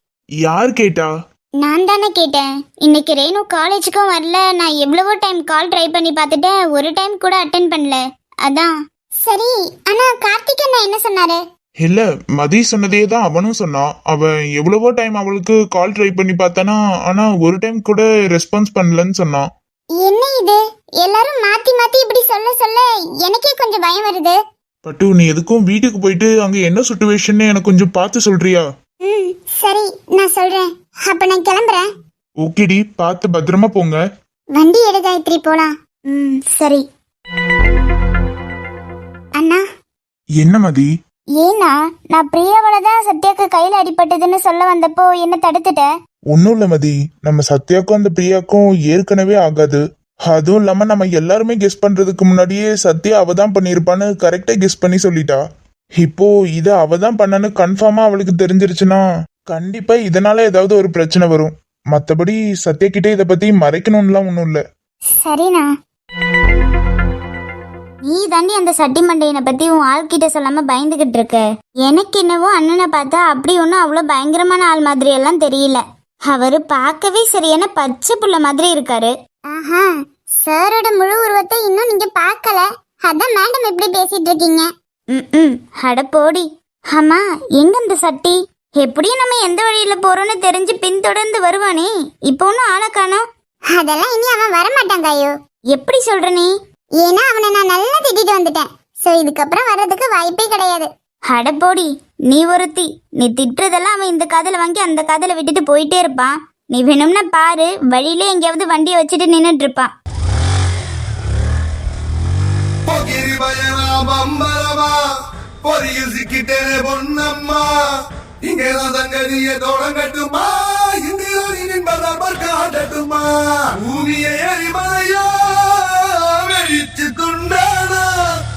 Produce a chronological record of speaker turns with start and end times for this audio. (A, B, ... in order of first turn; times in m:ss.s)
0:00.4-0:01.1 A
0:01.6-0:08.7 B
0:09.2-0:11.4 C
0:11.8-0:19.5 A
0:20.0-0:24.4 C
0:24.8-0:28.6 A
0:29.0-0:31.8 C
0:32.4-0:34.0 A
0:34.5-0:35.7 C
0:36.1-0:36.8 B
0:40.4-0:40.9 A
0:41.4-0:45.9 B
0:46.3-0:55.4 A
0:56.0-1:04.6 A
1:05.2-1:05.7 B
1:08.0-1:19.1 B
1:19.5-1:24.7 C
1:25.1-1:33.2 B
1:33.7-1:35.3 C
1:35.7-1:36.5 B
1:37.0-1:40.9 C
1:41.3-1:49.9 B
1:52.8-1:55.0 D
1:55.6-1:57.7 D
1:58.4-2:08.1 D